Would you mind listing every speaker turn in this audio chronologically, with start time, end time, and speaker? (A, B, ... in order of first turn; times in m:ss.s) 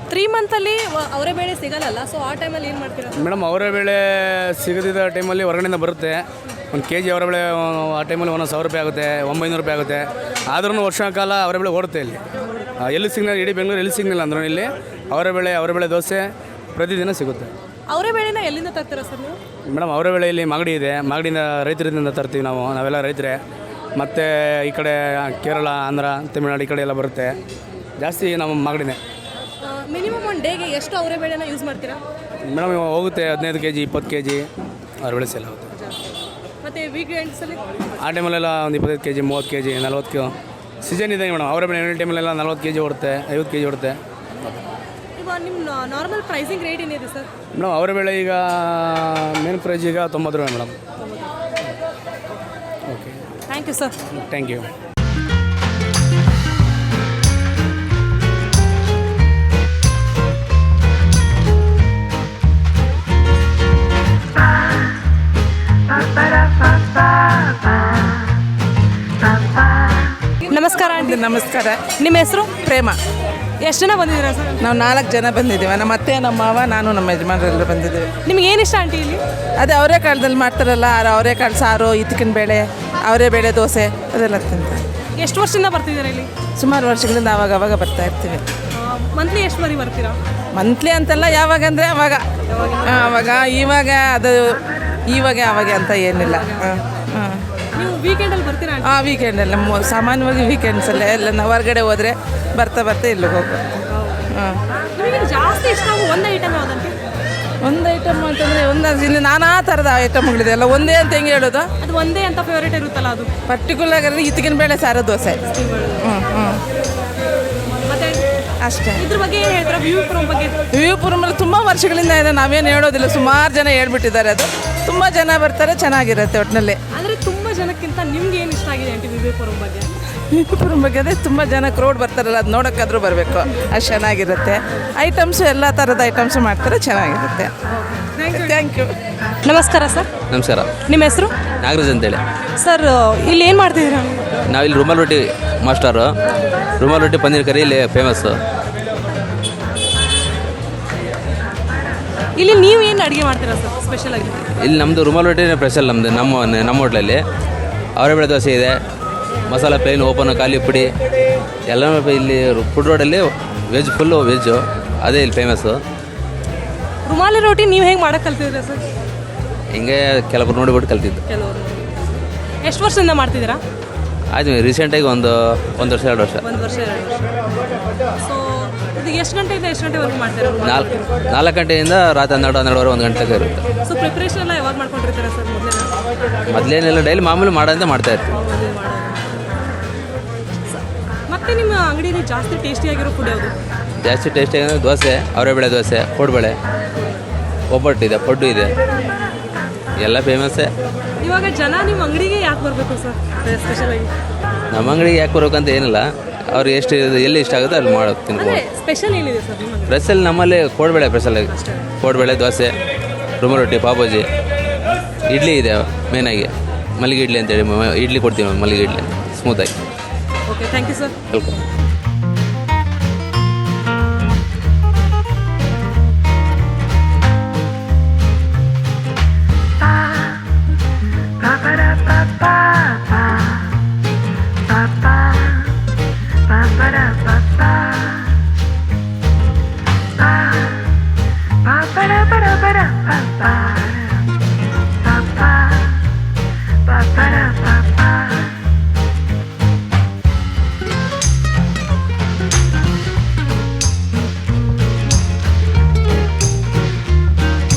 0:00.1-0:03.2 A
0:03.1-0:12.2 B
0:12.8-0:17.5 B
0:17.9-0:19.4 A
0:19.7-0:23.4 B
0:24.0-0:27.4 B
0:28.0-0:29.0 B
0:29.7-0:32.0 A
0:32.5-0:34.4 B
0:35.0-0:35.7 B
0:36.6-0:37.7 A
0:38.0-0:44.0 B
0:45.2-0:47.3 A
0:47.6-0:50.8 B
0:51.0-0:51.3 A
0:52.9-0:53.2 B
0:53.5-0:53.9 A
0:54.1-0:54.7 B
1:10.5-1:11.3 A
1:10.7-1:11.9 C
1:11.9-1:12.6 A
1:12.6-1:13.0 C
1:13.6-1:14.8 A
1:14.6-1:18.1 C
1:18.2-1:19.2 A
1:19.6-1:24.8 C
1:25.2-1:26.3 A
1:26.6-1:28.4 C
1:28.8-1:30.2 A
1:30.5-1:32.3 C
1:32.8-1:37.4 C
1:36.3-1:36.7 A
1:37.8-1:39.0 A
1:38.8-1:43.6 C
1:44.4-1:44.6 C
1:45.0-1:47.0 A
1:47.6-1:51.7 C
1:51.8-1:53.3 A
1:53.5-1:55.4 C
1:56.0-1:56.6 C
1:57.8-1:58.3 A
1:58.6-1:59.0 C
1:59.0-2:00.6 A
2:00.7-2:06.8 C
2:06.9-2:09.9 A
2:10.3-2:17.5 C
2:17.7-2:18.5 A
2:18.3-2:18.9 C
2:19.4-2:20.1 A
2:20.3-2:20.7 D
2:20.8-2:21.3 A
2:21.6-2:22.2 D
2:22.6-2:24.2 A
2:24.5-2:26.1 D
2:26.8-2:28.4 D
2:32.4-2:34.5 A
2:34.6-2:37.2 D
2:38.0-2:38.8 D
2:39.5-2:40.9 D
2:41.7-2:45.8 D
2:47.1-2:48.8 A
2:49.7-2:51.2 D
2:51.3-2:51.9 A
2:52.6-2:53.6 A
2:54.3-2:56.4 D
2:56.4-2:57.3 A
2:58.2-3:00.8 A
3:00.6-3:03.6 D
3:03.8-3:05.9 A
3:06.5-3:08.2 D
3:08.3-3:09.4 A
3:10.7-3:13.5 A
3:14.0-3:16.6 D
3:17.7-3:18.7 D
3:20.0-3:20.7 D
3:21.2-3:24.1 A
3:24.7-3:28.6 D
3:28.4-3:30.0 A
3:29.9-3:32.7 D
3:31.5-3:31.9 A
3:33.4-3:34.3 D
3:35.3-3:39.7 D
3:40.5-3:41.2 A